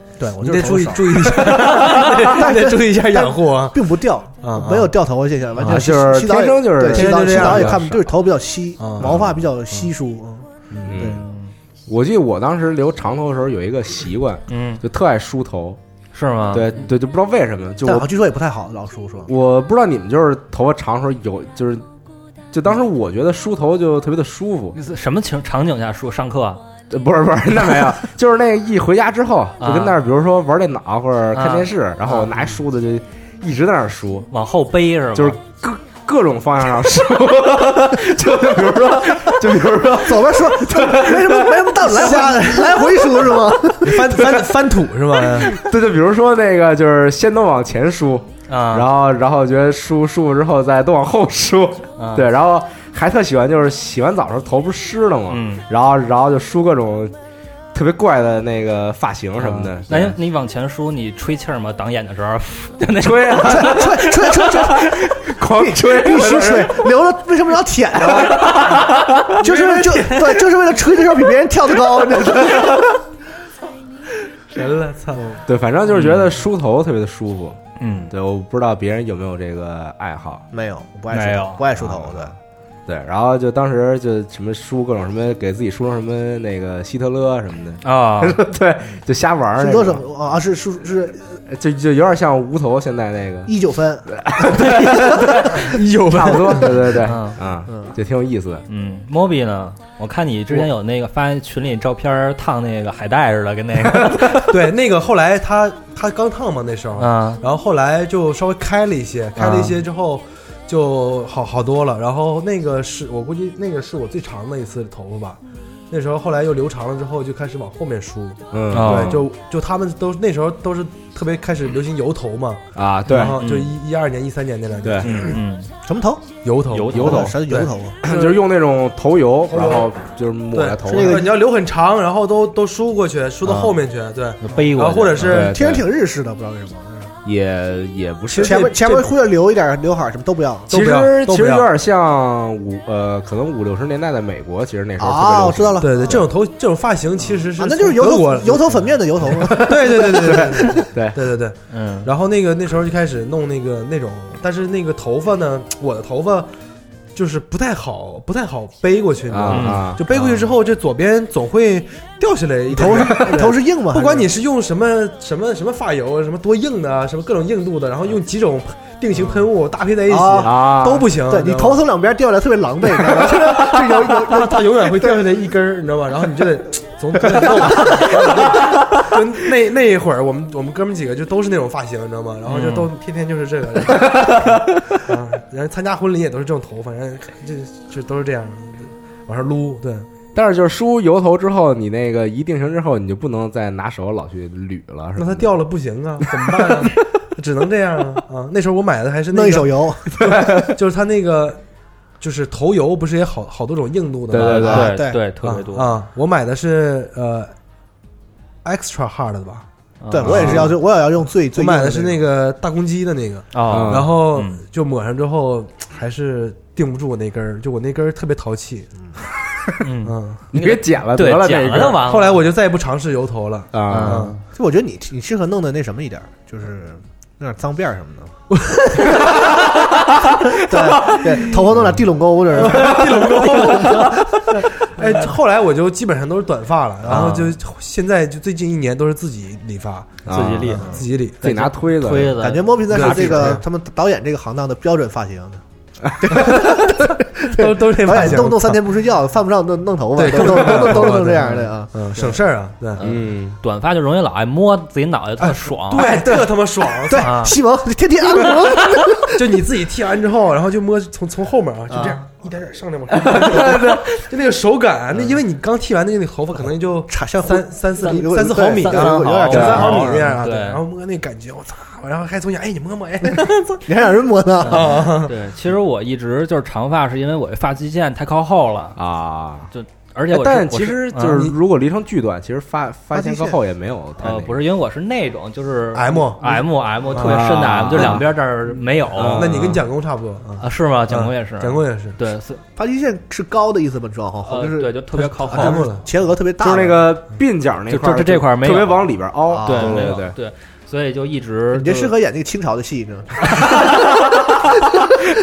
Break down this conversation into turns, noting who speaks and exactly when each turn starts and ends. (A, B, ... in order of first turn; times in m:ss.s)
0:00.2-0:11.2 A
0:00.4-0:04.9 B
0:05.6-0:05.9 B
0:05.6-0:08.0 C
0:06.9-0:07.8 B
0:08.8-0:09.1 B
0:09.0-0:09.4 C
0:10.7-0:11.0 B
0:10.9-0:11.2 C
0:11.0-0:11.5 D
0:11.9-0:15.8 C
0:14.5-0:14.8 D
0:16.1-0:16.7 D
0:16.5-0:18.1 C
0:17.8-0:19.3 A
0:19.3-0:21.8 C
0:22.5-0:24.8 C
0:24.7-0:26.6 D
0:26.9-0:34.3 C
0:29.6-0:30.0 D
0:31.3-0:32.6 D
0:34.3-0:35.4 D
0:35.2-0:42.2 C
0:39.9-0:44.3 A
0:41.8-0:42.6 B
0:43.8-0:45.6 B
0:44.2-0:44.5 C
0:45.2-0:57.1 C
0:48.5-0:48.9 D
0:52.0-0:52.3 D
0:55.3-0:55.7 D
0:57.7-1:00.2 C
0:59.5-1:03.9 D
1:02.9-1:06.9 C
1:03.4-1:08.8 A
1:08.1-1:09.3 C
1:09.3-1:12.9 A
1:09.4-1:10.5 B
1:12.2-1:12.8 C
1:14.5-1:15.4 B
1:15.5-1:17.6 C
1:15.9-1:16.3 D
1:17.8-1:18.1 D
1:18.1-1:20.4 C
1:20.5-1:22.4 A
1:21.1-1:21.7 D
1:21.8-1:22.3 C
1:22.9-1:30.0 C
1:27.8-1:28.4 D
1:29.6-1:31.4 A
1:31.5-1:33.5 C
1:33.5-1:35.6 A
1:34.1-1:38.6 C
1:35.6-1:37.0 B
1:37.0-1:37.4 D
1:37.7-1:37.9 A
1:38.7-1:44.5 D
1:43.8-1:44.3 C
1:44.5-1:55.4 B
1:47.0-1:47.4 D
1:49.4-1:49.8 D
1:55.9-2:05.4 B
1:58.5-1:59.2 C
1:58.7-1:59.2 D
2:02.8-2:03.4 C
2:03.1-2:03.7 D
2:04.8-2:05.4 C
2:05.0-2:05.7 D
2:05.8-2:06.2 A
2:06.4-2:08.4 B
2:06.7-2:07.4 D
2:06.9-2:07.4 C
2:07.0-2:08.0 A
2:08.0-2:11.2 C
2:09.5-2:09.9 B
2:10.5-2:15.6 B
2:10.9-2:11.4 A
2:13.4-2:13.8 D
2:14.4-2:15.4 D
2:15.2-2:15.8 C
2:15.4-2:17.2 A
2:17.2-2:18.6 C
2:18.3-2:19.2 B
2:18.3-2:20.7 A
2:20.7-2:21.7 B
2:20.7-2:26.1 C
2:25.0-2:26.3 A
2:25.8-2:36.5 B
2:27.6-2:30.6 A
2:29.4-2:31.2 C
2:31.7-2:32.1 D
2:37.2-2:51.8 B
2:39.3-2:40.0 C
2:39.5-2:40.5 D
2:42.7-2:44.3 A
2:49.1-2:49.4 A
2:50.1-2:55.2 A
2:50.4-2:51.1 C
2:53.2-3:10.1 B
2:57.4-2:58.4 A
3:02.5-3:02.9 D
3:10.3-3:15.4 C
3:15.2-3:21.6 B
3:19.3-3:20.1 A
3:20.2-3:20.7 C
3:22.2-3:24.9 B
3:24.3-3:24.9 C
3:24.4-3:25.9 D
3:24.7-3:25.2 A
3:25.4-3:27.5 B
3:28.6-3:29.6 B
3:30.0-3:30.7 D
3:30.1-3:32.2 A
3:30.2-3:30.7 C
3:30.3-3:30.8 B
3:31.5-3:38.9 B
3:33.5-3:34.6 D
3:33.7-3:34.1 C
3:39.8-3:42.4 D
3:40.0-3:40.4 B
3:40.5-3:42.1 C
3:42.0-3:44.4 B
3:43.7-3:44.3 C
3:43.9-3:44.4 D
3:44.6-3:49.7 A
3:48.5-3:49.0 B
3:50.5-3:55.0 A
3:50.7-3:51.7 C
3:52.5-4:01.4 B
3:57.1-3:57.5 D
4:00.3-4:00.9 C
4:00.3-4:03.6 D
4:01.4-4:02.4 C
4:02.4-4:05.6 A
4:02.9-4:03.6 B
4:06.2-4:12.4 A
4:06.3-4:08.8 B
4:10.2-4:13.0 B
4:13.0-4:16.3 D
4:13.0-4:13.6 C
4:15.8-4:17.3 B
4:17.0-4:19.4 A
4:17.2-4:17.6 D
4:19.3-4:33.8 B
4:21.9-4:22.2 A
4:23.4-4:24.0 C
4:23.5-4:23.8 D
4:27.1-4:30.2 A
4:28.7-4:30.8 D
4:29.5-4:30.1 C
4:33.3-4:35.2 A
4:34.6-4:39.0 D
4:34.6-4:35.3 B
4:39.0-4:39.7 C
4:39.7-4:41.5 D
4:40.3-4:44.6 C
4:43.1-4:43.6 A
4:44.2-4:49.6 D
4:45.9-4:48.2 B
4:47.1-4:48.3 C
4:49.1-4:49.8 C
4:49.2-4:52.2 B
4:50.6-4:52.6 D
4:52.8-4:57.2 A
4:54.4-4:55.9 D
4:55.2-4:56.1 B
4:56.6-5:00.4 C
4:57.9-4:59.1 D
4:59.5-5:00.2 A
4:59.6-5:02.1 D
5:01.7-5:04.7 A